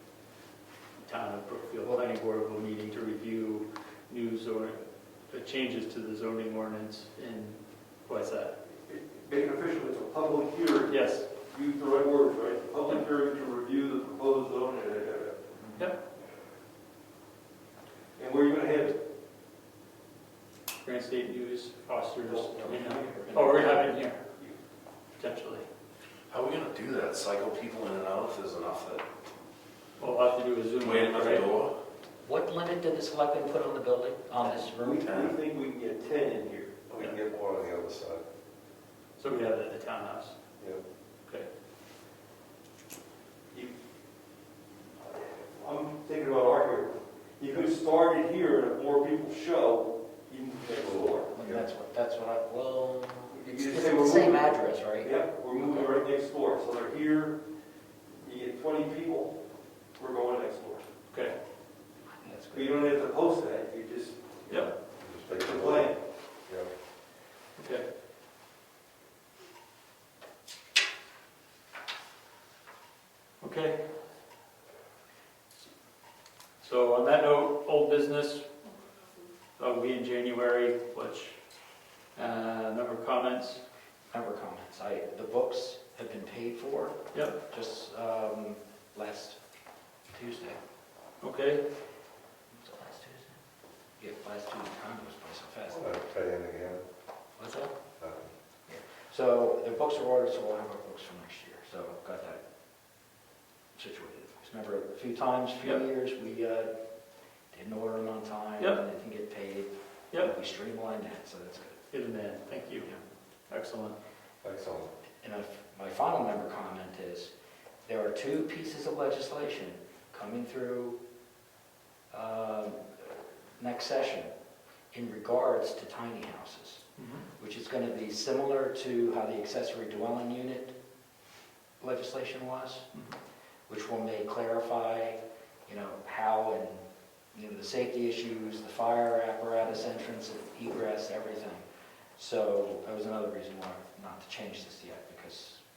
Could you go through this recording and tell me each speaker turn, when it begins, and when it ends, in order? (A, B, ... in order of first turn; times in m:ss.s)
0:01.0-0:04.8 A
0:01.8-0:02.1 B
0:05.3-0:08.5 A
0:08.8-0:15.7 C
0:10.9-0:11.3 A
0:18.2-0:19.0 C
0:20.8-0:24.2 A
0:22.2-0:24.6 C
0:25.2-0:25.6 A
0:26.3-0:29.0 D
0:30.0-0:31.5 A
0:30.8-0:31.8 D
0:32.2-0:35.4 B
0:34.5-0:36.8 C
0:36.9-0:38.2 E
0:39.2-0:40.4 A
0:44.9-0:51.3 C
0:50.8-0:51.6 E
0:51.3-0:55.7 B
0:53.3-0:57.4 C
0:58.1-0:59.4 C
1:00.0-1:00.9 C
1:01.1-1:01.3 A
1:02.2-1:02.8 B
1:02.5-1:06.0 C
1:05.0-1:05.9 E
1:07.6-1:07.8 A
1:13.4-1:13.8 A
1:16.6-1:18.5 A
1:19.6-1:21.4 A
1:22.1-1:23.6 A
1:24.1-1:29.4 B
1:27.1-1:27.4 A
1:30.1-1:30.6 B
1:31.2-1:31.6 A
1:32.5-1:33.4 B
1:34.0-1:36.0 B
1:35.7-1:36.8 E
1:37.4-1:37.8 B
1:38.0-1:38.3 E
1:38.7-1:42.4 B
1:43.7-1:46.7 B
1:47.5-1:51.8 B
1:51.9-1:52.9 A
1:53.5-1:54.0 A
1:54.4-1:54.9 E
1:55.2-1:57.3 B
1:57.8-2:01.0 B
2:02.1-2:04.3 B
2:04.9-2:10.7 B
2:07.0-2:07.3 A
2:11.8-2:12.9 B
2:13.7-2:21.6 B
2:22.2-2:25.6 B